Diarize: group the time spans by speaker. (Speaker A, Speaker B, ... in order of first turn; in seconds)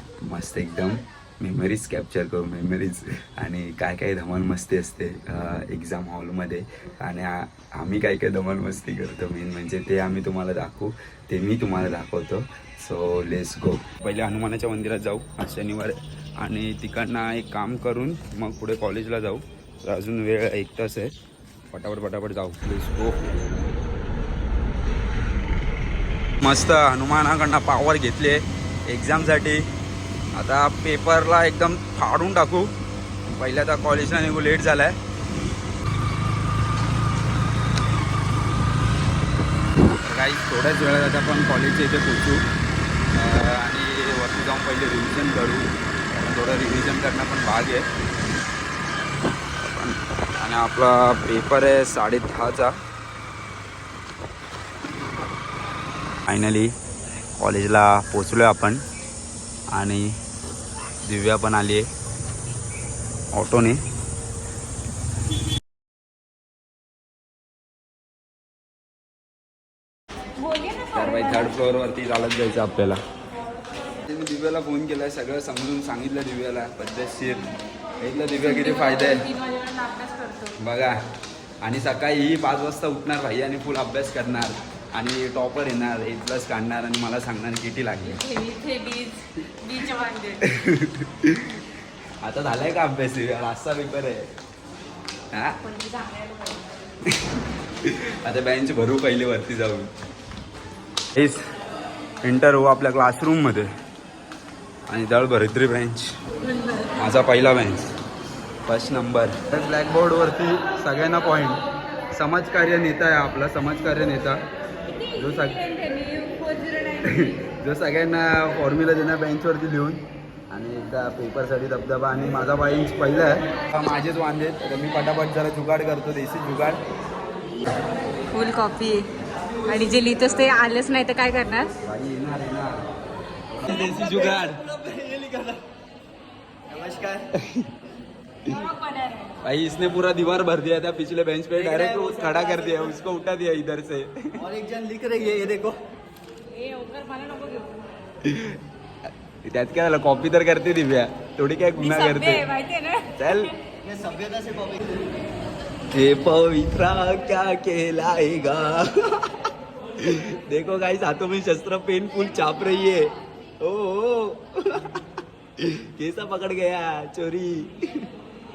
Speaker A: 0.3-21.1, 21.7-23.6, 26.4-29.6, 30.3-32.7, 33.3-35.0, 40.0-42.4, 43.1-47.9, 49.6-52.7, 56.3-56.7, 57.4-58.8, 59.7-60.2, 61.0-61.9, 63.3-63.8, 70.9-73.0, 74.0-79.3, 80.6-81.0, 81.6-88.2, 90.4-91.6, 92.2-94.3, 95.3-95.6, 97.0-99.9, 101.2-101.4, 102.2-103.7, 104.9-106.1, 107.0-107.9, 108.7-111.6, 112.1-114.4, 115.2-115.6, 117.0-126.8, 131.8-132.8, 133.5-134.6, 139.4-144.4, 148.2-148.6, 149.4-152.5, 153.2-153.5, 155.9-165.0, 165.6-168.1
Speaker B: 70.4-71.5, 79.3-80.5, 88.2-90.4, 95.7-96.4, 114.9-117.2, 128.3-129.1, 129.7-131.7, 146.6-147.7, 151.8-153.1
Speaker C: 133.8-135.6, 136.7-137.3, 141.7-142.9, 144.4-145.8, 153.8-155.1